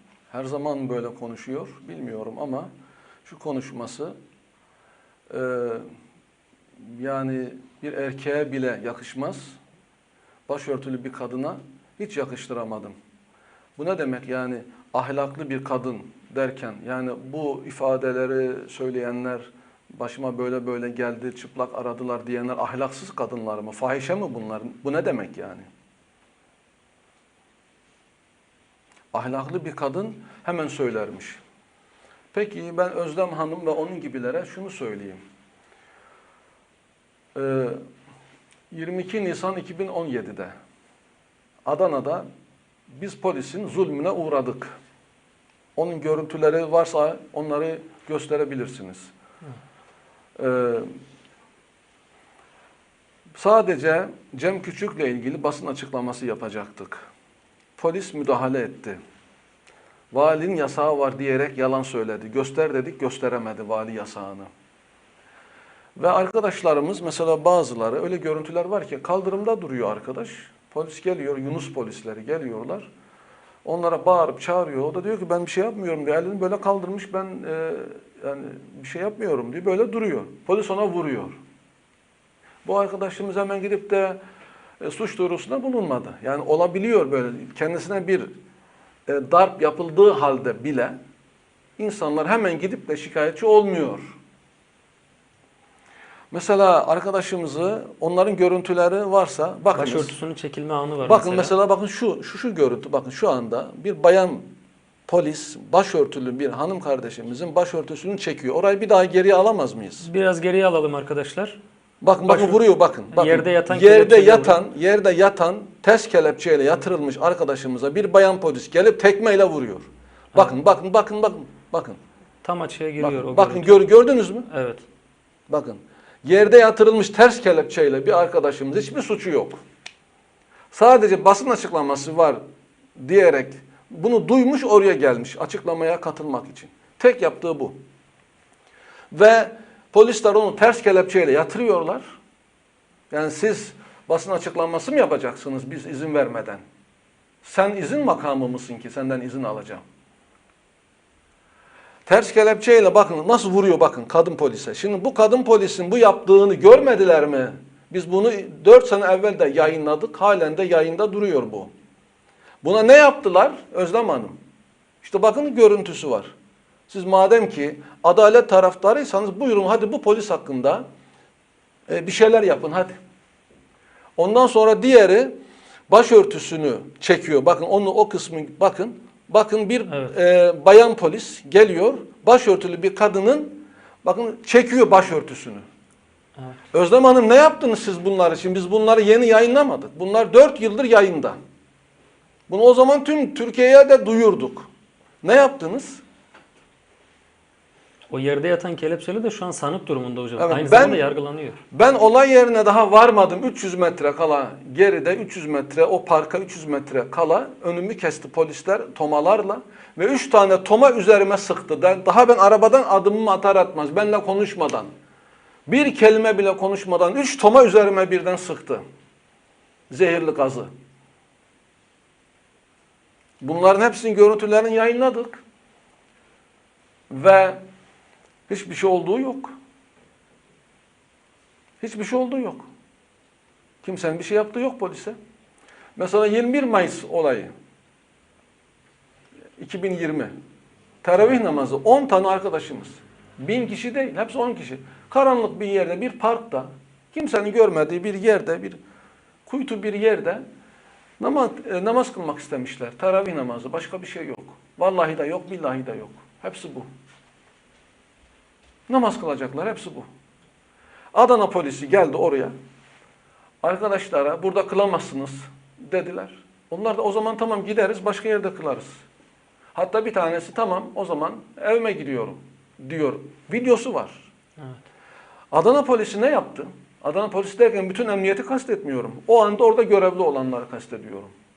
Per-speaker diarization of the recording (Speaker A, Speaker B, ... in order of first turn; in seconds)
Speaker A: 0.3-2.7, 3.2-4.1, 5.3-5.8, 6.8-9.6, 10.5-12.9, 13.8-25.7, 29.1-31.4, 32.3-35.2, 37.3-37.8, 38.7-40.5, 41.6-42.2, 42.9-44.7, 45.8-49.1, 50.4-50.9, 53.4-57.1, 57.8-59.0, 60.1-64.5, 66.0-72.9, 73.6-81.4, 82.6-84.2, 84.8-88.3, 89.1-91.0, 91.8-94.1, 96.3-100.2, 101.0-104.5, 105.1-110.1, 112.0-122.0, 123.0-124.5, 125.5-129.6, 130.7-132.4, 133.0-137.8, 139.1-142.2, 143.1-146.6, 147.4-149.8, 152.1-161.7, 162.6-164.4, 165.0-166.3, 166.9-170.8, 171.9-173.0, 174.2-175.3, 175.9-185.6, 186.7-191.4, 192.5-194.7, 195.2-196.0, 200.4-201.0, 201.7-214.9, 215.7-218.8, 219.9-220.7, 223.4-225.4, 227.1-227.6, 228.5-229.5, 231.8-232.7, 233.8-235.2, 235.9-237.5, 239.6-240.3, 241.0-248.8, 249.4-250.4, 251.2-256.9, 258.9-260.1, 261.1-262.5, 263.6-269.0, 269.7-274.3, 275.5-281.3
Speaker B: 99.7-101.5, 110.0-111.6, 112.2-114.6, 122.4-123.9, 124.5-124.8, 179.9-180.1, 198.1-201.6